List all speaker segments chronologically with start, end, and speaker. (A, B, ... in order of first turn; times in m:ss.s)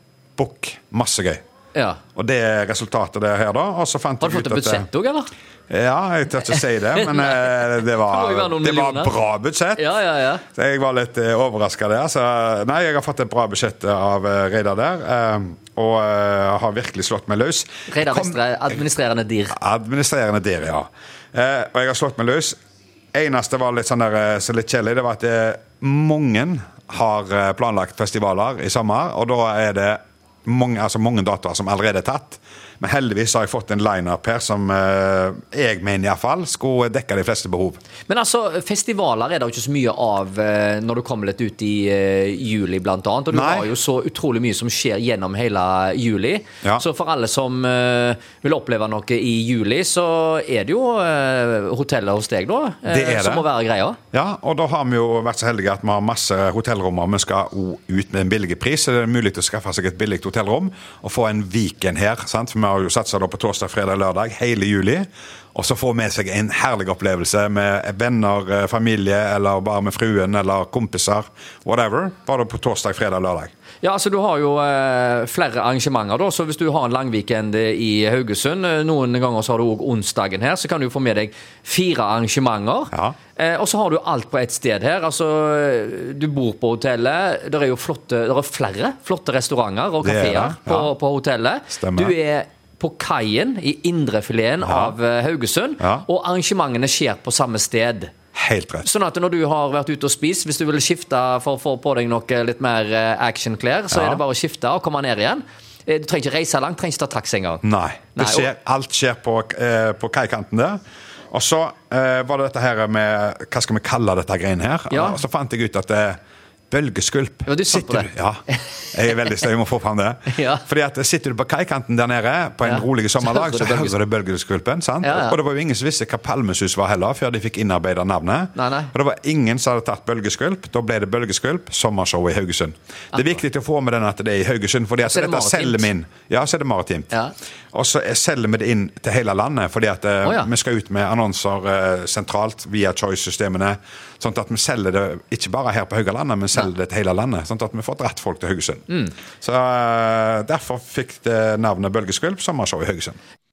0:00.4-0:01.4 A
0:01.7-0:02.0 B
0:02.2-0:04.9 A
0:04.2-0:05.3 B
0:05.7-0:09.9 A
0:07.0-0:09.1 B
0:09.8-0:10.4 B
0:10.5-0:18.4 A
0:17.9-0:19.6 B
0:19.5-0:22.6 A
0:23.1-0:37.8 A
0:38.1-0:54.0 B
0:43.3-0:43.7 A
0:52.9-0:53.4 A
0:54.1-1:13.5 A
1:13.8-1:38.1 B
1:30.0-1:30.9 A
1:31.7-1:32.1 A
1:34.6-1:34.9 A
1:35.8-1:36.0 A
1:38.3-1:38.9 A
1:38.8-1:47.6 B
1:43.9-1:44.2 A
1:47.6-1:50.8 A
1:48.1-1:48.5 B
1:51.3-1:56.2 A
1:54.9-1:55.2 B
1:56.7-1:58.4 A
1:57.4-1:58.8 B
1:58.9-2:17.1 A
2:00.3-2:00.6 B
2:02.6-2:04.0 B
2:05.0-2:05.4 B
2:08.6-2:08.9 B
2:15.0-2:15.9 B
2:17.7-2:28.8 A
2:20.2-2:20.5 B
2:28.9-2:29.1 B
2:29.4-2:33.2 A